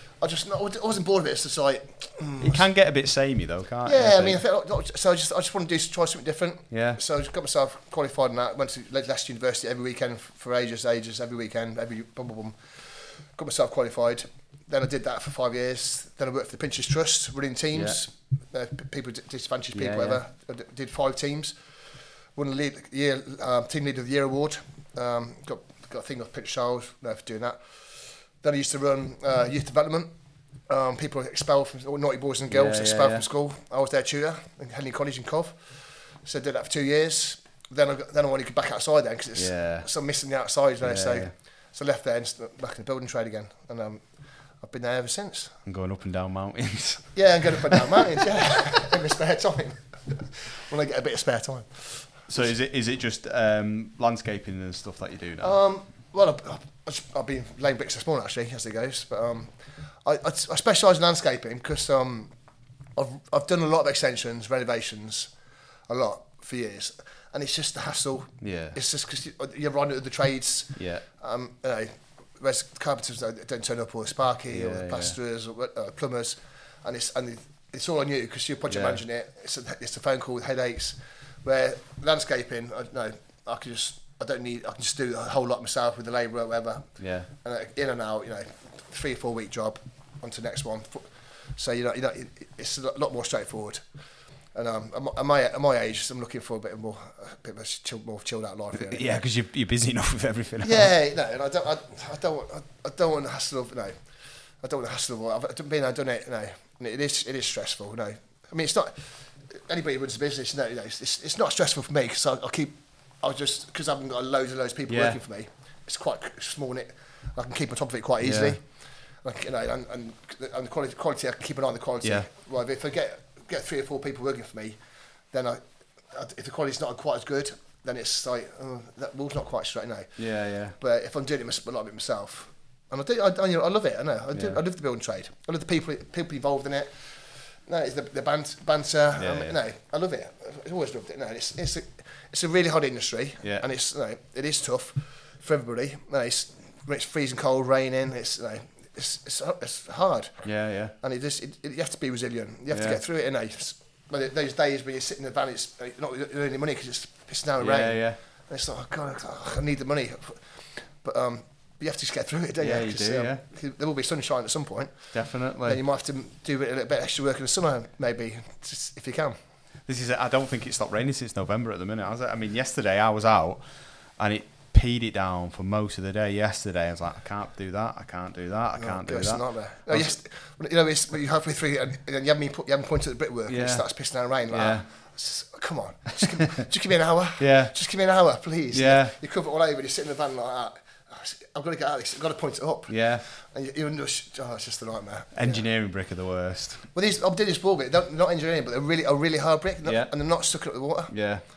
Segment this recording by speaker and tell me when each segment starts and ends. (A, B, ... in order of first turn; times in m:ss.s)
0:00.2-0:02.7 A
0:02.4-0:04.4 B
0:03.8-0:12.6 A
0:06.7-0:07.0 B
0:13.4-0:21.6 A
0:17.7-0:18.0 B
0:19.8-0:20.2 B
0:22.4-0:27.6 A
0:28.4-0:30.1 A
0:30.7-0:35.6 A
0:32.5-0:33.2 B
0:36.2-0:44.0 A
0:39.4-0:39.9 B
0:40.8-0:41.3 B
0:44.6-0:45.5 A
0:45.7-0:48.5 B
0:47.2-0:52.1 A
0:52.3-0:55.6 B
0:55.4-0:59.5 A
1:00.0-1:02.3 A
1:03.0-1:05.3 A
1:05.9-1:26.9 A
1:08.4-1:08.8 B
1:10.8-1:11.0 B
1:14.5-1:15.2 B
1:18.7-1:19.0 B
1:27.0-1:27.3 B
1:27.4-1:33.8 A
1:34.6-1:39.2 A
1:38.8-1:40.9 B
1:40.6-1:44.0 A
1:44.6-1:58.6 A
1:54.9-1:55.2 B
1:58.2-1:58.6 B
1:59.2-2:04.8 A
2:05.3-2:05.6 A
2:06.1-2:10.1 A
2:10.2-2:10.8 B
2:10.8-2:16.9 A
2:14.3-2:14.6 B
2:17.7-2:30.3 A
2:19.2-2:19.6 B
2:30.4-2:30.9 B
2:31.0-2:40.4 A
2:32.7-2:33.0 B
2:37.6-2:38.2 B
2:41.0-2:45.1 A
2:42.6-2:43.4 B
2:45.1-2:45.8 B
2:45.6-2:49.4 A
2:49.9-2:53.6 B
2:54.2-3:00.1 B
2:58.8-3:15.6 A
3:03.5-3:03.8 B
3:04.5-3:04.9 B
3:07.4-3:07.7 B
3:08.7-3:09.2 B
3:12.9-3:13.2 B
3:15.4-3:16.9 B
3:16.9-3:21.1 A
3:19.8-3:20.1 B
3:21.1-3:21.4 B